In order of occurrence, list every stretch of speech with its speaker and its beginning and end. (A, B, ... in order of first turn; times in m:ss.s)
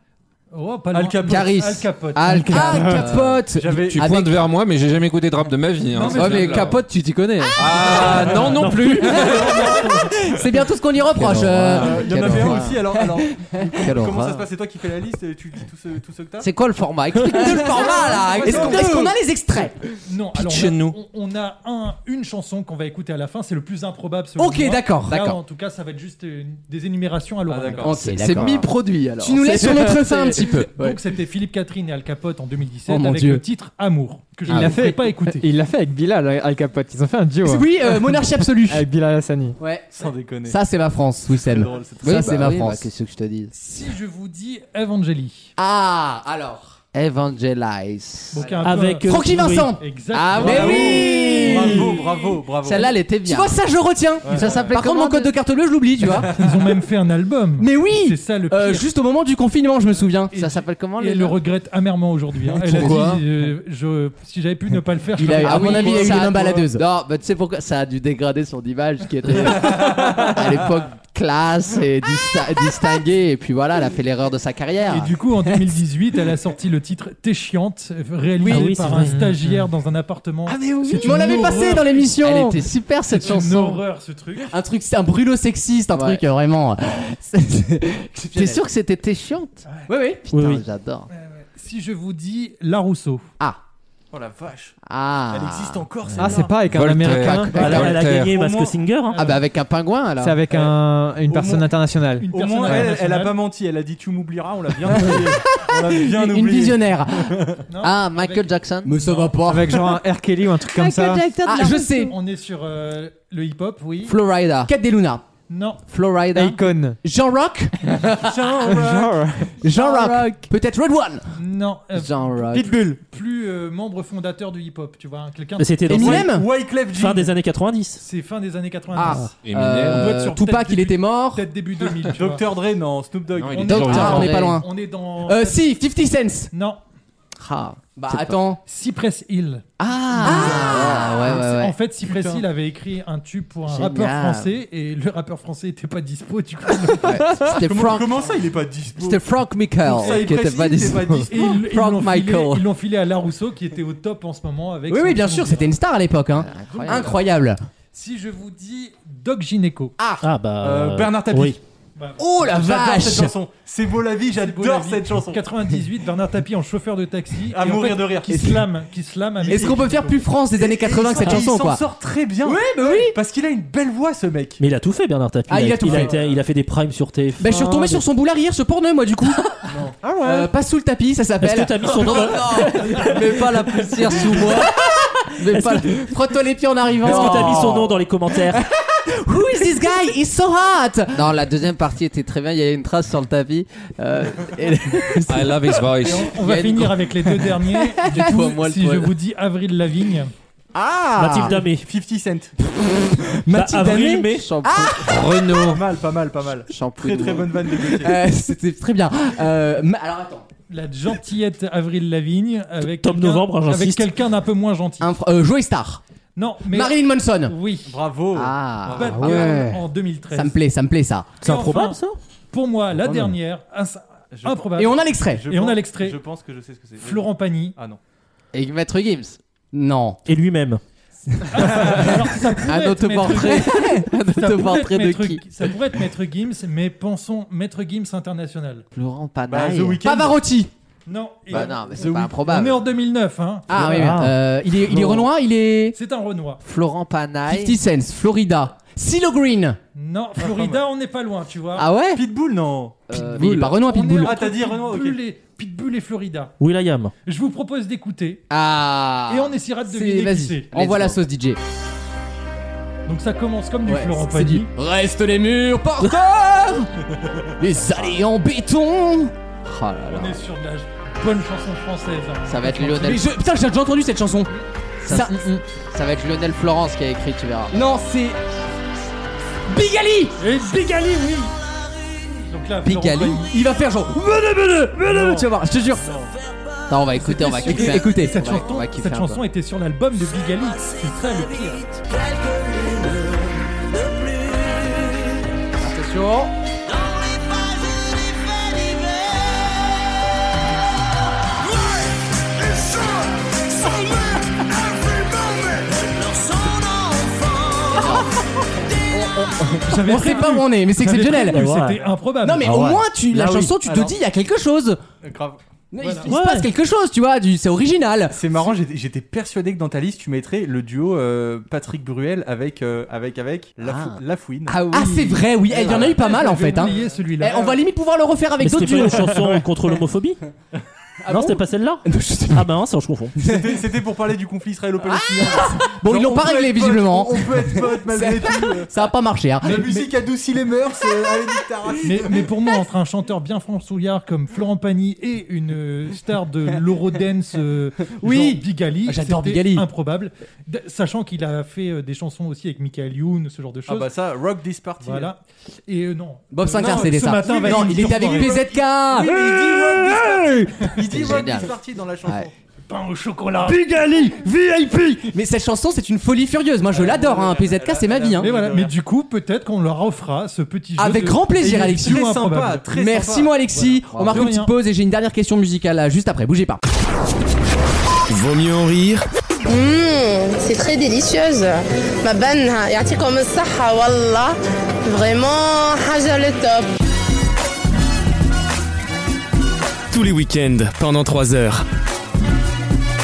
0:00.5-0:02.6 A
0:00.9-0:01.6 B
0:01.3-0:03.4 C
0:02.3-0:03.1 D
0:02.5-0:04.4 E
0:03.5-0:04.1 B
0:03.8-0:06.7 F
0:05.9-0:06.8 A
0:06.0-0:09.4 C
0:06.1-0:06.7 B
0:07.6-0:09.2 F
0:07.8-0:10.1 A
0:08.4-0:09.4 G
0:08.9-0:12.4 E
0:09.3-0:09.7 B
0:11.2-0:13.0 C
0:11.7-0:16.5 B
0:13.7-0:14.5 C
0:16.4-0:19.1 C
0:17.3-0:19.8 E
0:17.8-0:19.0 B
0:17.9-0:19.0 A
0:20.1-0:27.9 A
0:20.4-0:21.0 F
0:24.4-0:25.4 E
0:27.5-0:28.0 B
0:27.8-0:28.7 E
0:27.9-0:31.0 C
0:28.3-0:28.6 D
0:29.2-0:30.7 E
0:30.8-0:35.5 A
0:32.9-0:33.4 E
0:34.5-0:37.7 D
0:37.4-0:38.8 E
0:38.7-0:39.6 D
0:39.6-0:39.9 E
0:39.9-0:40.6 B
0:40.4-0:42.9 E
0:41.4-0:42.6 B
0:42.0-0:43.5 C
0:43.5-0:45.5 A
0:45.6-0:46.8 E
0:46.9-0:48.6 C
0:48.3-0:49.1 A
0:48.6-0:49.8 G
0:49.1-0:49.8 E
0:49.8-0:52.4 A
0:50.1-0:52.0 C
0:50.3-0:52.9 B
0:50.4-0:51.9 E
0:52.6-0:53.6 C
0:52.8-0:56.4 E
0:54.3-0:54.7 B
0:54.3-0:55.3 C
0:54.4-0:54.7 A
0:56.3-0:58.9 A
0:57.6-1:00.3 E
1:00.3-1:06.4 A
1:00.3-1:01.4 C
1:02.5-1:03.2 C
1:05.2-1:06.8 E
1:05.3-1:15.2 C
1:14.9-1:22.1 A
1:18.4-1:18.7 E
1:18.4-1:19.3 G
1:19.0-1:19.6 D
1:20.5-1:23.8 C
1:20.9-1:22.6 E
1:23.1-1:24.5 A
1:24.5-1:28.6 E
1:25.9-1:26.2 C
1:28.4-1:29.6 C
1:29.9-1:30.2 E
1:30.3-1:31.1 C
1:30.3-1:30.6 G
1:31.1-1:33.2 A
1:34.1-1:34.8 B
1:34.9-1:36.2 C
1:35.3-1:36.6 B
1:36.2-1:37.7 D
1:36.7-1:38.4 F
1:37.3-1:38.9 B
1:37.6-1:39.3 G
1:39.1-1:39.4 A
1:39.1-1:40.4 C
1:40.2-1:42.9 D
1:40.5-1:41.7 B
1:42.2-1:43.4 A
1:42.2-1:47.6 B
1:45.4-1:47.4 E
1:47.7-1:49.4 A
1:47.8-1:49.0 C
1:48.8-1:49.9 E
1:49.4-1:52.0 D
1:51.4-1:52.2 E
1:51.8-1:54.2 A
1:54.0-1:54.7 C
1:54.7-1:55.2 E
1:55.5-1:55.8 A
1:55.9-1:56.6 C
1:56.4-1:57.0 D
1:57.0-1:58.3 E
1:58.2-1:59.4 B
1:58.8-1:59.5 D
1:59.6-2:01.3 E
2:01.4-2:06.1 A
2:01.9-2:02.8 C
2:02.6-2:02.9 B
2:05.6-2:06.4 G
2:05.9-2:06.5 E
2:05.9-2:07.4 B
2:06.9-2:08.0 G
2:08.0-2:12.5 A
2:08.9-2:11.4 E
2:09.4-2:10.2 F
2:12.1-2:14.3 B
2:13.4-2:14.4 F
2:13.5-2:15.6 A
2:13.7-2:14.6 C
2:13.8-2:14.7 E
2:15.2-2:16.5 E
2:16.5-2:16.8 A
2:17.4-2:18.4 C
2:18.0-2:18.6 E
2:18.6-2:19.6 A
2:19.8-2:21.8 C
2:20.2-2:27.2 A
2:20.2-2:21.2 E
2:22.0-2:22.4 B
2:23.7-2:24.5 C
2:27.0-2:28.3 C
2:27.1-2:27.5 D
2:27.6-2:29.2 B
2:29.0-2:32.6 C
2:29.9-2:31.4 B
2:30.0-2:30.4 A
2:31.3-2:35.8 A
2:34.9-2:37.6 E
2:36.4-2:37.1 C
2:36.6-2:37.2 A
2:37.9-2:39.9 A
2:40.0-2:40.2 E
2:40.2-2:41.6 G
2:40.6-2:41.6 B
2:42.0-2:42.2 A
2:42.2-2:43.3 E
2:42.2-2:45.5 B
2:44.3-2:50.2 A
2:47.5-2:48.6 B
2:49.4-2:54.6 B
2:49.5-2:51.8 E
2:52.4-2:53.2 E
2:54.6-2:58.0 G
2:55.5-2:56.1 E
2:55.8-2:56.4 B
2:57.4-2:59.5 E
2:59.7-3:00.0 B
3:00.0-3:00.5 D
3:00.2-3:03.1 E
3:01.4-3:02.6 G
3:01.9-3:04.7 C
3:02.8-3:04.6 B
3:04.2-3:11.2 E
3:05.4-3:06.1 C
3:07.0-3:08.6 G
3:07.1-3:07.8 C
3:11.1-3:15.6 C
3:15.3-3:16.4 F
3:16.0-3:20.3 A
3:16.4-3:19.2 C
3:20.8-3:21.5 E
3:21.2-3:21.9 G
3:21.6-3:22.5 B
3:23.5-3:24.5 G
3:23.5-3:24.2 B
3:24.2-3:25.1 C
3:24.6-3:25.2 E
3:25.1-3:25.8 F
3:25.5-3:28.2 B
3:26.7-3:27.7 C
3:28.0-3:30.5 E
3:30.7-3:35.1 A
3:32.9-3:34.1 G
3:35.0-3:36.0 E
3:36.4-3:37.9 A
3:36.7-3:37.5 E
3:37.8-3:39.5 B
3:38.3-3:39.8 C
3:38.9-3:40.6 A
3:40.3-3:41.4 E
3:41.4-3:42.0 A
3:41.4-3:42.2 G
3:42.5-3:46.2 A
3:44.3-3:44.7 B
3:44.8-3:45.4 E
3:45.3-3:48.0 B
3:47.0-3:47.8 A
3:48.5-3:49.4 C
3:49.7-3:50.2 E
3:50.2-3:50.8 G
3:51.5-3:58.8 A
3:51.6-3:55.5 C
3:58.9-4:00.0 C
3:59.5-4:00.4 B
4:00.0-4:00.7 E
4:01.1-4:03.9 A
4:01.5-4:02.8 C
4:01.5-4:02.4 B
4:03.7-4:06.0 E
4:03.8-4:04.4 G
4:04.9-4:05.3 G
4:05.9-4:06.6 A
4:06.6-4:07.8 C
4:07.5-4:09.8 E
4:10.0-4:11.9 A
4:10.5-4:10.8 B
4:11.8-4:12.2 C
4:12.1-4:13.0 B
4:13.1-4:13.8 C
4:13.1-4:14.4 E
4:13.8-4:16.6 A
4:14.2-4:15.2 B
4:16.6-4:17.1 G
4:17.2-4:18.4 A
4:18.5-4:19.6 C
4:19.3-4:20.7 A
4:19.9-4:21.6 E
4:20.7-4:21.2 C
4:23.1-4:24.7 A
4:23.9-4:26.9 E
4:27.6-4:29.3 E
4:29.6-4:30.4 C
4:30.1-4:33.3 A
4:32.5-4:33.3 C
4:33.0-4:34.5 E
4:35.0-4:35.4 E
4:35.0-4:35.4 C
4:35.1-4:35.6 D
4:35.9-4:37.7 C
4:37.7-4:38.4 E
4:39.7-4:40.4 E
4:40.4-4:41.5 A
4:42.5-4:43.5 A
4:42.8-4:43.5 C
4:43.5-4:46.0 E
4:45.0-4:45.5 A
4:46.0-4:46.3 B
4:46.9-4:49.4 C
4:47.2-4:51.9 A
4:47.6-4:48.5 E
4:55.8-4:56.5 E
5:07.9-5:08.3 E
5:09.1-5:11.7 E
5:09.8-5:12.9 A
5:11.4-5:12.0 G
5:12.4-5:15.0 E
5:12.6-5:13.8 G
5:15.2-5:15.6 B
5:15.9-5:18.4 E
5:16.3-5:16.7 G
5:18.3-5:24.9 B
5:23.8-5:26.1 C
5:24.9-5:29.6 E
5:25.8-5:27.2 B
5:25.8-5:27.8 A
5:28.6-5:30.4 G
5:31.2-5:32.7 E
5:31.3-5:33.4 G
5:33.4-5:33.8 E
5:33.4-5:38.9 B
5:35.1-5:40.0 E
5:39.6-5:42.5 B
5:42.0-5:54.1 A
5:48.2-5:49.9 E
5:53.9-5:55.3 B
5:55.0-5:58.7 A
5:56.5-5:59.4 E
5:56.7-6:02.5 B
5:59.2-6:01.3 A
6:01.1-6:02.5 C
6:02.9-6:05.3 A
6:05.3-6:08.5 E
6:06.9-6:09.0 B
6:08.4-6:13.0 A
6:11.0-6:12.2 E
6:11.6-6:13.6 B
6:12.9-6:16.8 E
6:13.7-6:14.7 A
6:18.3-6:19.2 H
6:19.6-6:26.9 I
6:30.1-6:31.9 H